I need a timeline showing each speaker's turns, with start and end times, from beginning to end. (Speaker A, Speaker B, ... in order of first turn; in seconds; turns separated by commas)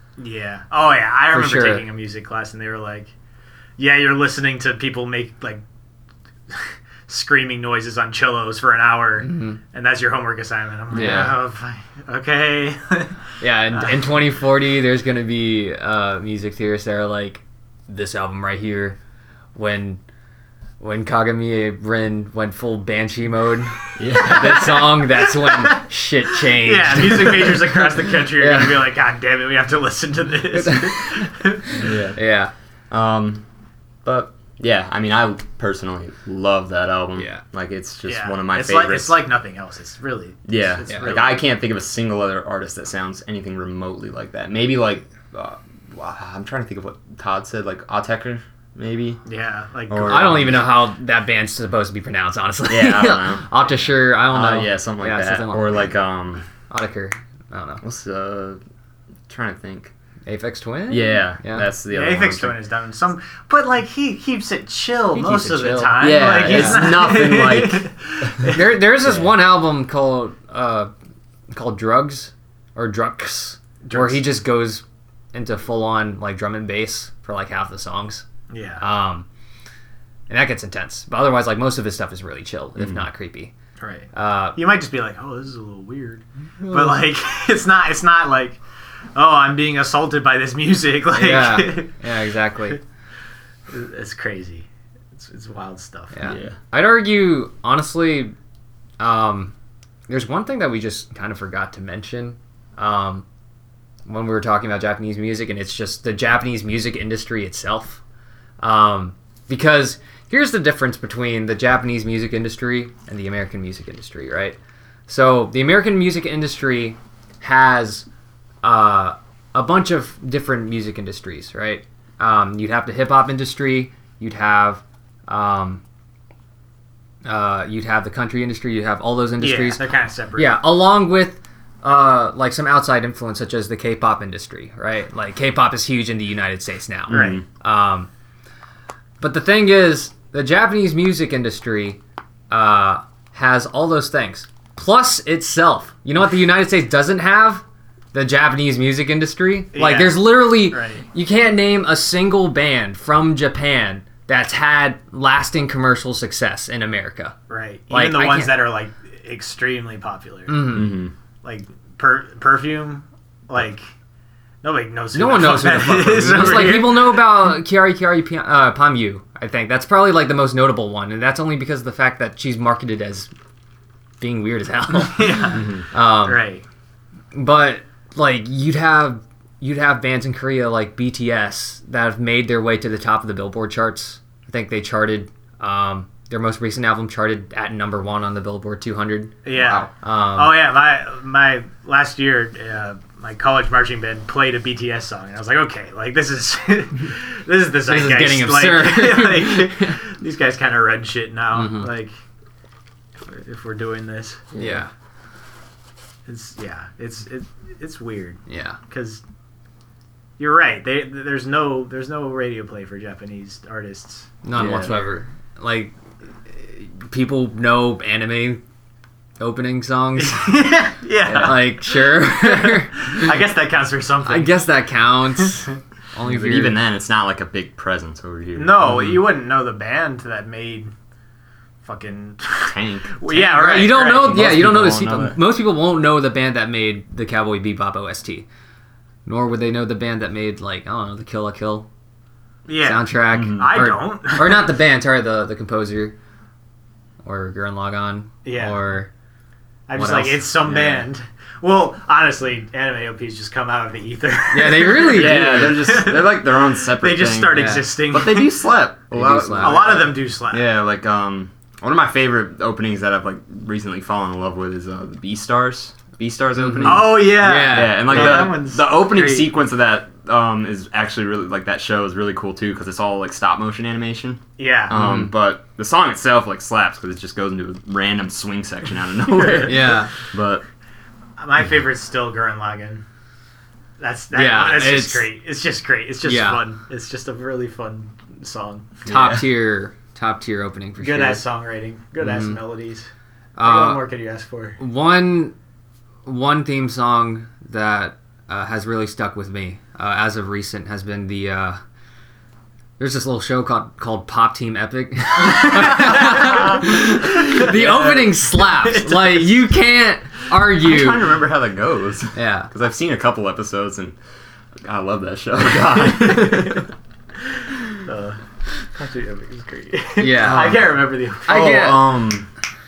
Speaker A: 0.2-3.1, Speaker B: 1.3-1.8, Speaker A: 3.8-5.6, Speaker A: 6.5-13.2, Speaker B: 9.2-9.6, Speaker B: 10.9-11.4, Speaker B: 13.4-19.0, Speaker A: 13.7-14.1, Speaker B: 19.6-20.0, Speaker B: 20.8-28.8, Speaker C: 24.0-24.7, Speaker A: 24.1-31.8, Speaker B: 30.5-32.5, Speaker C: 31.8-32.2, Speaker C: 32.9-33.5, Speaker C: 34.0-39.2, Speaker B: 37.2-37.4, Speaker A: 38.1-41.5, Speaker C: 40.5-49.2, Speaker A: 49.3-50.7, Speaker C: 49.9-50.6, Speaker B: 50.0-55.9, Speaker C: 52.7-53.5, Speaker C: 54.3-56.5, Speaker B: 56.7-57.8, Speaker C: 57.8-58.6, Speaker C: 59.3-59.9, Speaker B: 60.3-61.7, Speaker C: 60.9-62.6, Speaker A: 61.9-68.8, Speaker B: 65.1-66.9, Speaker C: 66.0-68.5, Speaker B: 68.5-70.9, Speaker C: 69.0-69.3, Speaker B: 71.5-78.3, Speaker A: 73.8-74.2, Speaker A: 78.5-78.8, Speaker B: 78.8-79.3, Speaker B: 80.3-83.5, Speaker C: 82.8-83.0, Speaker A: 83.8-88.6, Speaker B: 84.1-84.6, Speaker B: 86.6-87.0, Speaker A: 89.2-92.0, Speaker B: 91.1-92.8, Speaker A: 93.7-96.3, Speaker B: 96.1-98.3, Speaker C: 96.2-96.6, Speaker B: 99.0-99.5, Speaker B: 100.1-103.2, Speaker B: 104.1-108.0, Speaker B: 108.6-114.6, Speaker B: 115.1-118.1, Speaker B: 118.6-125.8, Speaker B: 127.3-129.8, Speaker A: 129.4-130.6, Speaker B: 130.4-138.1, Speaker C: 137.1-137.4, Speaker A: 137.1-137.4, Speaker B: 139.2-157.3, Speaker A: 149.7-151.1, Speaker A: 157.5-160.8, Speaker B: 157.9-158.6, Speaker B: 160.5-161.0, Speaker C: 160.7-161.1, Speaker A: 161.4-163.9, Speaker A: 164.6-167.3, Speaker B: 165.1-173.3, Speaker B: 174.2-176.4, Speaker A: 175.0-176.6, Speaker C: 175.6-175.8, Speaker B: 177.3-190.5, Speaker A: 189.4-202.1, Speaker B: 197.8-199.9, Speaker B: 201.5-201.9, Speaker A: 203.2-204.5, Speaker C: 204.5-204.8, Speaker B: 204.6-204.9, Speaker A: 206.3-209.2, Speaker B: 208.5-208.8, Speaker A: 210.4-214.4, Speaker B: 214.4-215.9, Speaker C: 214.6-215.0, Speaker B: 216.5-218.6, Speaker B: 219.4-220.5, Speaker A: 220.2-224.6, Speaker B: 221.3-223.3, Speaker B: 224.3-226.8, Speaker C: 226.2-229.0, Speaker A: 228.6-230.9, Speaker B: 228.8-229.2, Speaker A: 231.8-234.4, Speaker C: 232.6-233.1, Speaker B: 233.3-238.5, Speaker C: 234.1-235.4, Speaker B: 239.3-241.9, Speaker A: 242.7-244.7, Speaker B: 242.8-246.2, Speaker C: 243.3-243.8, Speaker B: 247.2-249.1, Speaker A: 248.4-248.8, Speaker A: 249.9-258.7, Speaker B: 250.0-250.5, Speaker C: 250.7-251.1, Speaker B: 254.5-255.8, Speaker C: 255.1-280.6, Speaker B: 257.5-257.9, Speaker B: 259.1-260.0, Speaker A: 259.6-260.6, Speaker B: 266.6-268.6, Speaker A: 266.8-269.5, Speaker A: 274.6-275.0, Speaker B: 274.9-275.3, Speaker A: 279.4-279.7, Speaker B: 279.6-280.1, Speaker A: 281.4-283.1, Speaker A: 284.0-289.1, Speaker B: 284.3-285.3, Speaker B: 286.2-286.6, Speaker C: 289.1-289.4, Speaker B: 289.1-291.4, Speaker A: 291.0-293.1, Speaker B: 292.2-292.6, Speaker B: 293.6-294.0, Speaker A: 293.6-294.8, Speaker B: 294.8-295.6, Speaker B: 296.3-301.8, Speaker B: 303.0-311.3, Speaker A: 305.5-309.6, Speaker C: 310.8-314.2, Speaker B: 312.4-312.7, Speaker C: 314.8-316.9, Speaker A: 316.0-316.9, Speaker A: 317.6-321.8, Speaker B: 320.2-320.9, Speaker C: 320.5-320.8, Speaker B: 321.5-322.0, Speaker C: 321.5-322.5